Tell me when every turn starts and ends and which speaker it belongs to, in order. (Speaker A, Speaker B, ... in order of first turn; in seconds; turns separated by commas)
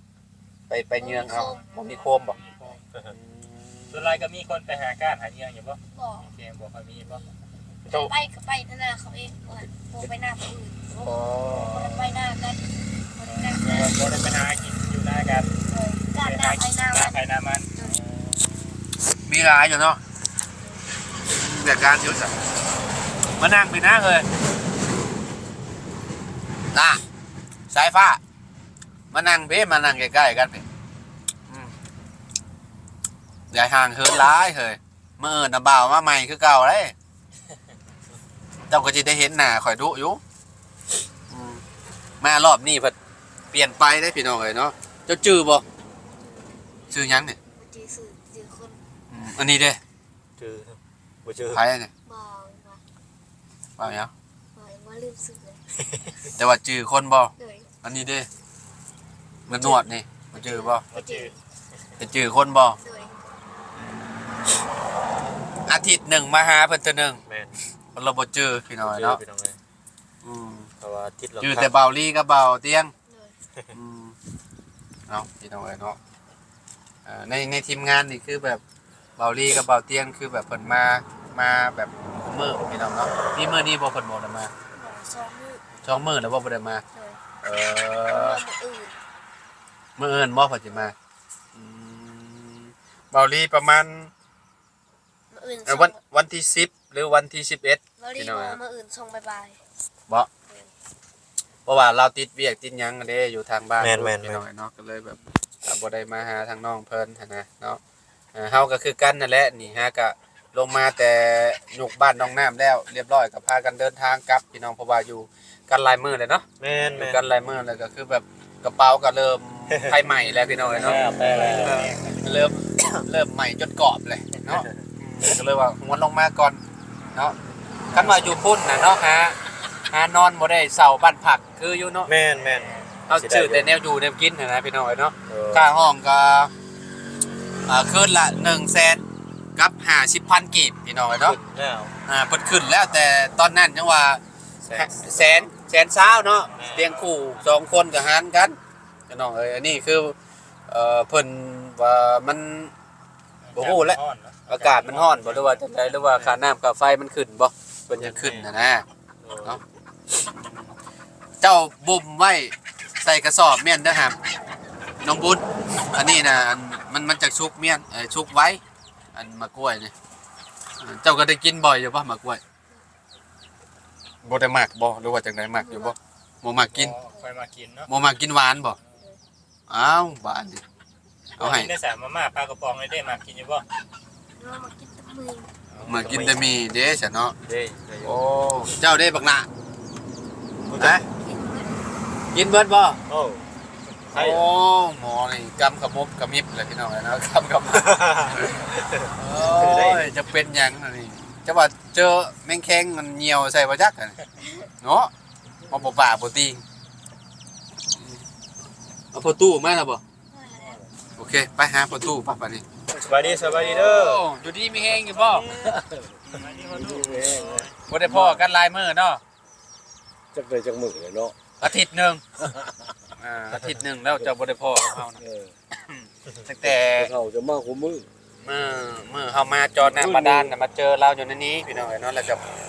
Speaker A: 0.7-2.4, Speaker B: 1.0-2.8, Speaker C: 2.4-2.7, Speaker A: 3.1-4.2, Speaker C: 3.9-7.2, Speaker B: 5.9-6.3, Speaker B: 7.0-7.3, Speaker A: 7.9-8.1, Speaker B: 7.9-14.2, Speaker A: 11.0-12.1, Speaker C: 13.4-15.5, Speaker B: 15.7-17.2, Speaker C: 16.2-18.6, Speaker A: 19.3-20.0, Speaker A: 21.3-22.4, Speaker A: 23.4-24.3, Speaker A: 26.7-27.0, Speaker A: 27.7-28.2, Speaker A: 29.1-30.6, Speaker A: 33.5-36.9, Speaker A: 38.7-40.2, Speaker A: 41.3-41.6, Speaker A: 42.2-42.9, Speaker A: 43.5-45.6, Speaker B: 46.2-46.5, Speaker A: 46.9-47.4, Speaker B: 47.6-48.8, Speaker A: 49.1-49.8, Speaker D: 50.4-51.6, Speaker A: 51.5-51.9, Speaker B: 52.1-52.8, Speaker A: 53.8-54.1, Speaker B: 54.5-55.6, Speaker D: 55.8-56.1, Speaker A: 56.4-58.3, Speaker B: 57.4-57.7, Speaker D: 59.5-59.8, Speaker A: 59.5-60.9, Speaker B: 60.4-61.4, Speaker C: 60.9-61.3, Speaker A: 62.0-62.8, Speaker B: 62.8-63.2, Speaker A: 65.7-67.2, Speaker D: 67.3-67.5, Speaker A: 67.9-69.2, Speaker D: 68.8-69.6, Speaker A: 70.2-70.7, Speaker D: 70.8-71.7, Speaker A: 71.4-72.9, Speaker B: 73.1-73.3, Speaker A: 73.7-74.1, Speaker A: 75.1-76.0, Speaker A: 77.0-78.6, Speaker A: 79.2-84.5, Speaker B: 84.7-85.8, Speaker A: 85.8-86.8, Speaker B: 86.9-87.2, Speaker A: 87.4-88.4, Speaker B: 88.1-89.0, Speaker A: 90.0-90.9, Speaker A: 91.5-94.1, Speaker B: 95.3-96.0, Speaker A: 95.7-98.6, Speaker B: 98.0-99.6, Speaker A: 101.7-107.8, Speaker D: 103.8-104.4, Speaker A: 108.3-121.0, Speaker D: 116.6-117.2, Speaker D: 119.7-120.0, Speaker C: 120.7-122.3, Speaker D: 120.8-121.9, Speaker A: 122.2-126.6, Speaker A: 127.9-129.4, Speaker A: 129.9-132.1, Speaker D: 132.1-133.7, Speaker C: 132.4-132.9, Speaker A: 133.1-136.5, Speaker D: 135.3-135.7, Speaker A: 137.7-139.0, Speaker A: 139.6-141.4, Speaker D: 141.2-141.9, Speaker A: 142.1-148.6, Speaker D: 144.6-145.5, Speaker C: 146.5-147.0, Speaker D: 146.5-147.0, Speaker A: 149.1-150.1, Speaker A: 150.7-152.7, Speaker C: 153.5-155.8, Speaker A: 153.5-158.8, Speaker D: 157.9-158.5, Speaker D: 159.2-159.6, Speaker A: 160.4-160.6, Speaker A: 161.4-164.2, Speaker A: 165.0-168.6, Speaker A: 169.1-169.9, Speaker A: 170.8-172.4, Speaker A: 174.2-176.9, Speaker B: 175.5-175.9, Speaker C: 176.7-177.9, Speaker A: 177.9-178.8, Speaker B: 178.9-179.2, Speaker A: 179.7-180.6, Speaker A: 181.4-181.7, Speaker C: 181.4-183.6, Speaker B: 184.4-185.5, Speaker C: 185.7-186.3, Speaker D: 185.8-186.5, Speaker A: 185.8-187.4, Speaker D: 187.5-188.2, Speaker A: 188.0-189.5, Speaker D: 190.6-191.0, Speaker A: 190.8-191.1, Speaker B: 191.1-192.1, Speaker A: 192.3-193.0, Speaker D: 193.1-193.4, Speaker D: 194.1-194.5, Speaker A: 194.1-198.6, Speaker D: 197.8-200.1, Speaker A: 199.1-204.2, Speaker A: 204.8-205.1, Speaker A: 205.7-206.6, Speaker A: 209.1-210.0, Speaker B: 210.3-210.8, Speaker A: 211.2-212.6, Speaker E: 212.9-214.0, Speaker D: 213.0-214.2, Speaker A: 213.7-215.5, Speaker E: 215.5-216.1, Speaker A: 216.2-217.1, Speaker C: 216.3-217.7, Speaker E: 216.8-218.4, Speaker A: 217.8-219.2, Speaker E: 220.3-221.3, Speaker A: 221.6-222.4, Speaker E: 222.5-222.9, Speaker A: 223.2-227.1, Speaker E: 224.1-225.5, Speaker E: 226.6-228.1, Speaker A: 228.4-232.4, Speaker E: 229.8-230.5